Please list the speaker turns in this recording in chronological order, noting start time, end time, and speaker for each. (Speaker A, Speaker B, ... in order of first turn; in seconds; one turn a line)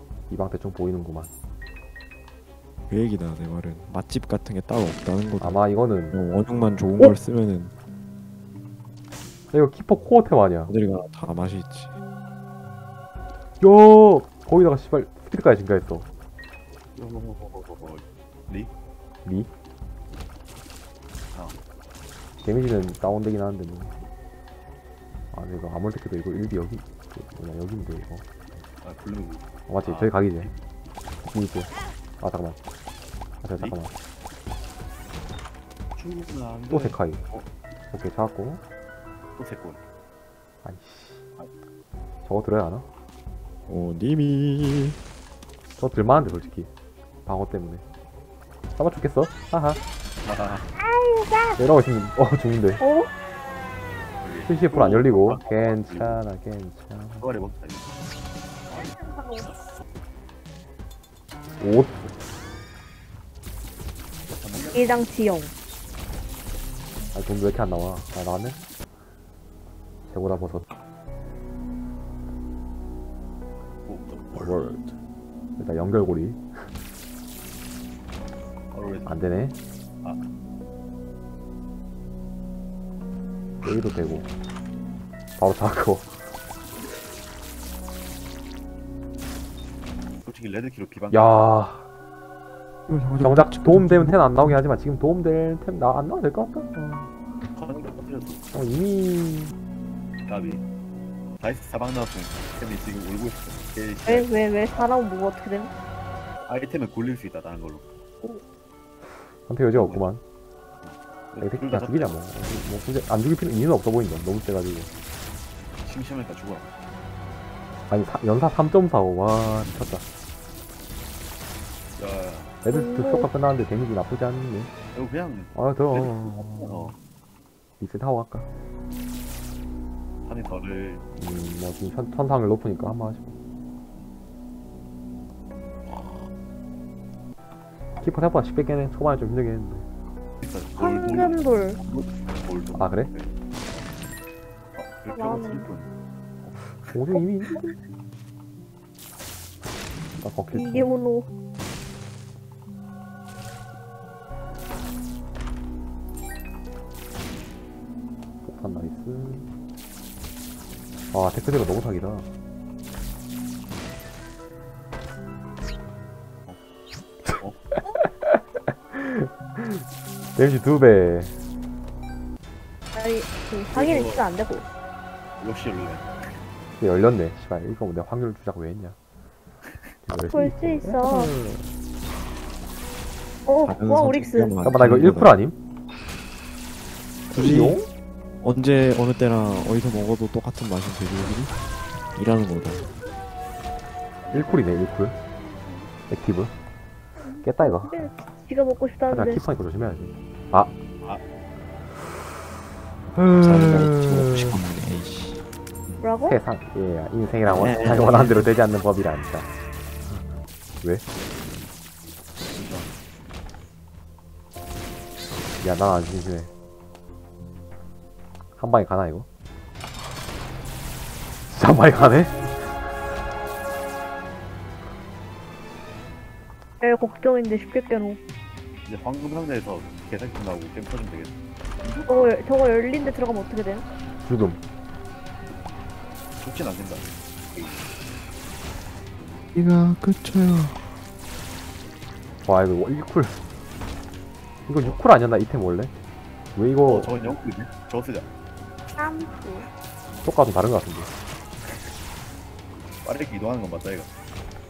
Speaker A: 0.3-1.3
Speaker B: 2.9-7.7
Speaker A: 5.4-6.2
Speaker A: 9.5-10.7
Speaker B: 10.7-11.9
Speaker A: 13.6-16.1
Speaker C: 16.9-18.7
Speaker A: 22.4-24.0
Speaker A: 25.3-28.2
Speaker C: 28.8-30.6
Speaker A: 29.7-30.5
Speaker A: 31.2-32.6
Speaker A: 33.4-33.9
Speaker C: 36.0-37.5
Speaker A: 36.7-37.2
Speaker A: 37.9-38.6
Speaker C: 39.4-39.8
Speaker A: 40.6-41.3
Speaker A: 42.2-42.9
Speaker B: 43.7-45.0
Speaker A: 45.8-46.7
Speaker A: 47.2-47.8
Speaker A: 48.8-49.8
Speaker C: 50.2-50.7
Speaker D: 50.8-51.6
Speaker A: 51.6-52.8
Speaker D: 52.8-53.1
Speaker C: 54.2-56.2
Speaker A: 54.4-57.3
Speaker C: 57.2-58.0
Speaker D: 58.7-59.5
Speaker A: 61.6-62.1
Speaker C: 64.4-65.1
Speaker D: 64.7-65.5
Speaker A: 67.1-68.6
Speaker A: 70.1-70.7
Speaker C: 73.8-74.5
Speaker A: 74.3-74.8
Speaker A: 75.6-76.7
Speaker C: 78.7-79.2
Speaker A: 79.0-79.6
Speaker A: 83.6-84.3
Speaker A: 85.4-86.2
Speaker C: 90.2-91.5
Speaker A: 91.1-91.9
Speaker B: 92.9-94.6
Speaker A: 93.2-97.1
Speaker C: 97.5-98.4
Speaker A: 98.5-99.5
Speaker C: 100.2-100.6
Speaker C: 101.3-104.3
Speaker D: 104.0-105.7
Speaker C: 106.5-107.8
Speaker A: 109.3-110.2
Speaker C: 109.7-110.1
Speaker C: 110.8-112.2
Speaker A: 111.4-114.9
Speaker C: 115.8-116.7
Speaker A: 117.9-120.0
Speaker C: 122.0-122.5
Speaker A: 122.6-124.7
Speaker D: 122.7-123.3
Speaker C: 124.9-127.0
Speaker A: 125.5-126.9
Speaker A: 127.8-128.5
Speaker C: 130.2-131.0
Speaker A: 131.2-133.3
Speaker A: 137.9-139.9
Speaker C: 140.4-143.9
Speaker D: 140.8-141.8
Speaker A: 142.7-143.1
Speaker C: 144.7-147.2
Speaker D: 145.1-145.7
Speaker A: 146.9-147.7
Speaker A: 150.2-150.9
Speaker D: 150.5-151.3
Speaker A: 158.4-159.5
Speaker A: 161.1-162.3
Speaker A: 167.9-169.8
Speaker A: 170.3-171.3
Speaker D: 172.9-174.7
Speaker C: 173.7-174.3
Speaker C: 175.4-176.4
Speaker A: 176.8-179.0
Speaker A: 180.1-181.7
Speaker D: 180.3-181.3
Speaker D: 183.4-184.5
Speaker B: 183.6-185.3
Speaker A: 184.6-185.6
Speaker A: 187.3-187.9
Speaker B: 187.3-187.8
Speaker B: 188.4-191.5
Speaker B: 192.1-192.8
Speaker C: 194.2-194.8
Speaker A: 194.3-195.2
Speaker D: 195.4-195.9
Speaker A: 196.1-196.5
Speaker D: 197.2-199.4
Speaker A: 197.4-198.1
Speaker A: 199.1-200.7
Speaker A: 203.2-204.6
Speaker B: 203.3-205.4
Speaker D: 206.0-206.4
Speaker A: 206.2-209.5
Speaker B: 207.4-208.5
Speaker C: 212.5-212.9
Speaker A: 215.6-216.5
Speaker A: 218.6-219.3
Speaker A: 221.5-222.8
Speaker D: 226.8-228.2
Speaker C: 228.8-231.4
Speaker D: 232.0-233.8
Speaker A: 234.2-234.6
Speaker C: 236.4-237.9
Speaker B: 239.5-240.8
Speaker A: 242.4-243.4
Speaker A: 244.7-245.9
Speaker A: 246.6-247.1
Speaker C: 246.8-248.3
Speaker D: 249.0-249.7
Speaker A: 250.2-251.1
Speaker C: 253.0-254.1